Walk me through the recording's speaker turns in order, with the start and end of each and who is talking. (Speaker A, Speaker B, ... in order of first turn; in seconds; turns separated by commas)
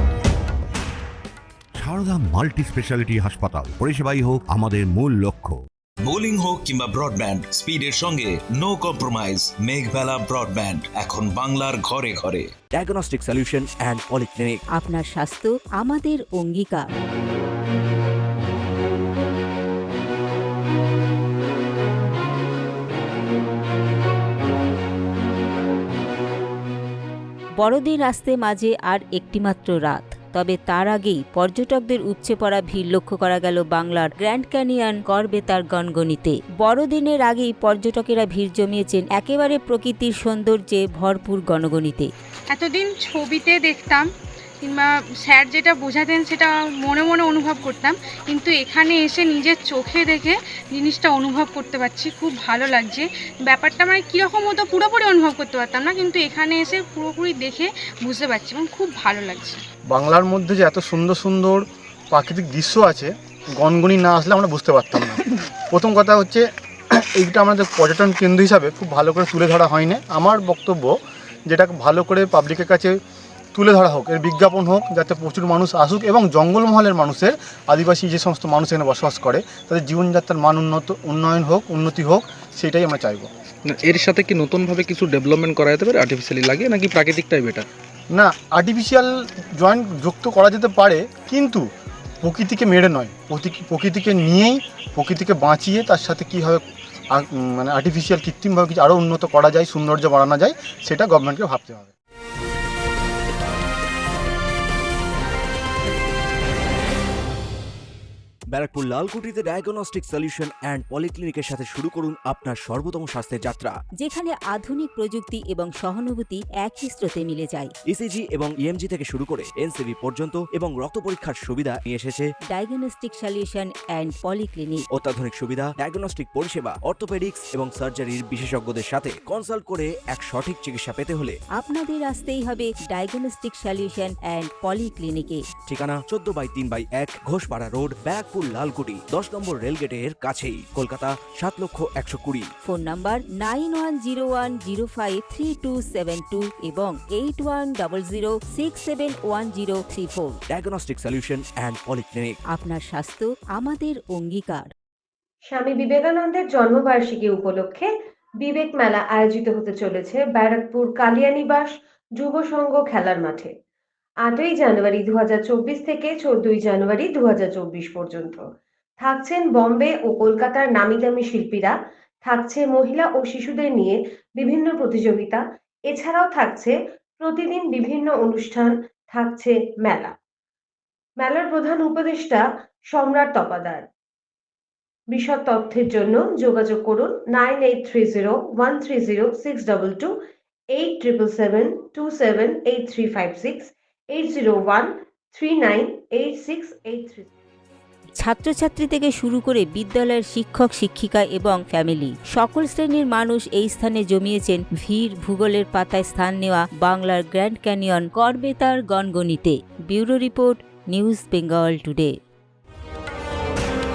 Speaker A: 1.8-5.6, Speaker B: 6.1-12.5, Speaker C: 12.7-14.6, Speaker D: 14.8-16.9, Speaker D: 27.6-42.1, Speaker E: 42.5-44.1, Speaker E: 44.6-59.6, Speaker F: 59.9-66.5, Speaker F: 67.2-71.0, Speaker F: 71.5-73.0, Speaker F: 73.5-83.3, Speaker G: 83.7-87.7, Speaker F: 88.1-91.7, Speaker F: 92.2-101.9, Speaker C: 108.5-113.7, Speaker D: 114.0-117.7, Speaker C: 117.9-122.3, Speaker D: 122.5-124.8, Speaker C: 124.9-131.4, Speaker D: 131.6-135.4, Speaker C: 135.7-142.5, Speaker D: 142.7-150.4, Speaker C: 150.5-152.4, Speaker D: 152.5-154.7, Speaker H: 155.5-157.9, Speaker H: 158.4-163.5, Speaker H: 164.2-168.4, Speaker H: 169.0-180.2, Speaker H: 181.2-183.8, Speaker H: 185.1-190.1, Speaker H: 190.8-197.3, Speaker D: 198.2-212.1